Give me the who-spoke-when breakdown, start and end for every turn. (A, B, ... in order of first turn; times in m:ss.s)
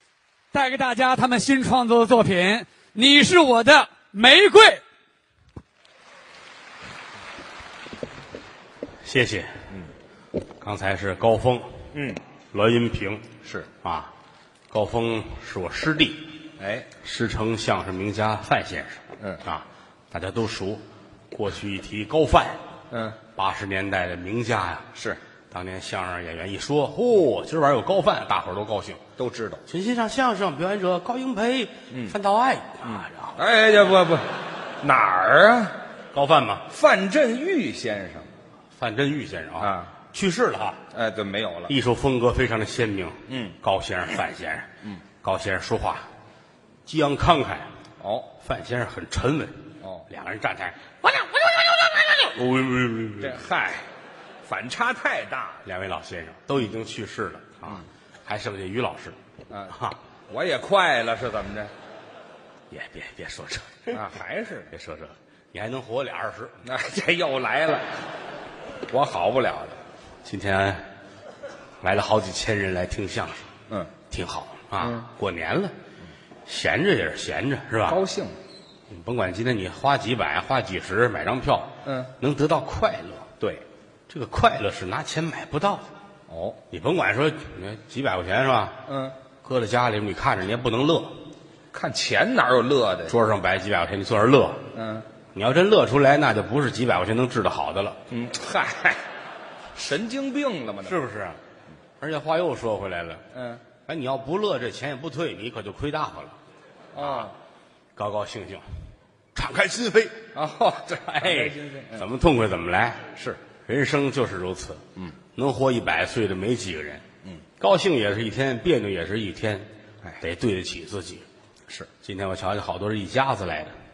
0:00.5-0:04.8 A
0:09.0-0:09.5 B
0:10.6-0:11.9 B
0:11.9-0:12.2 C
0:12.5-0:13.3 B
0:13.4-0:13.7 C
0:13.8-0:14.1 B
0:14.7-0:16.3 B
0:16.6-0:16.9 C
0:17.0-0:22.6 B
0:22.9-0:23.2 C
0:23.3-0:24.9 B
0:24.9-0:25.2 C
0:25.5-0:29.0 B
0:29.2-0:29.6 C
0:29.7-0:33.4 B
0:31.9-0:32.2 C
0:32.8-0:35.7 C
0:36.1-0:36.6 B
0:36.7-0:38.3 C
0:38.8-0:40.8 B
0:39.6-0:39.9 C
0:40.9-0:41.7 C
0:41.7-0:44.7 B
0:43.3-0:43.6 C
0:45.2-0:46.1 B
0:46.8-0:47.7 B
0:48.0-0:48.3 C
0:48.4-0:53.4 B
0:49.8-0:50.1 C
0:53.2-0:53.8 C
0:54.4-0:55.6 C
0:55.6-0:59.2 B
0:59.5-0:59.8 C
0:59.7-1:00.0 B
1:00.3-1:01.7 C
1:02.7-1:04.0 B
1:03.9-1:04.7 C
1:04.7-1:06.5 B
1:06.6-1:08.0 C
1:08.8-1:09.8 C
1:10.2-1:10.8 B
1:11.8-1:13.5 B
1:14.1-1:15.7 B
1:14.8-1:15.1 C
1:16.4-1:18.0 B
1:17.8-1:18.4 C
1:18.9-1:23.3 B
1:21.8-1:22.1 C
1:24.1-1:25.9 B
1:26.3-1:26.6 C
1:26.7-1:28.8 B
1:28.9-1:29.2 C
1:29.4-1:31.1 B
1:31.7-1:33.2 C
1:33.1-1:34.6 B
1:34.7-1:35.0 C
1:35.3-1:38.0 B
1:38.1-1:39.0 C
1:39.7-1:41.0 C
1:40.8-1:41.4 B
1:42.0-1:43.2 B
1:43.3-1:43.6 C
1:43.8-1:46.4 B
1:46.9-1:47.3 C
1:47.0-1:47.3 B
1:48.0-1:48.6 B
1:49.3-1:50.2 B
1:50.3-1:52.0 C
1:51.1-1:53.0 B
1:53.1-1:53.4 C
1:53.6-1:54.8 B
1:55.3-1:57.0 B
1:57.6-1:59.7 B
2:00.2-2:01.2 B
2:02.0-2:03.7 B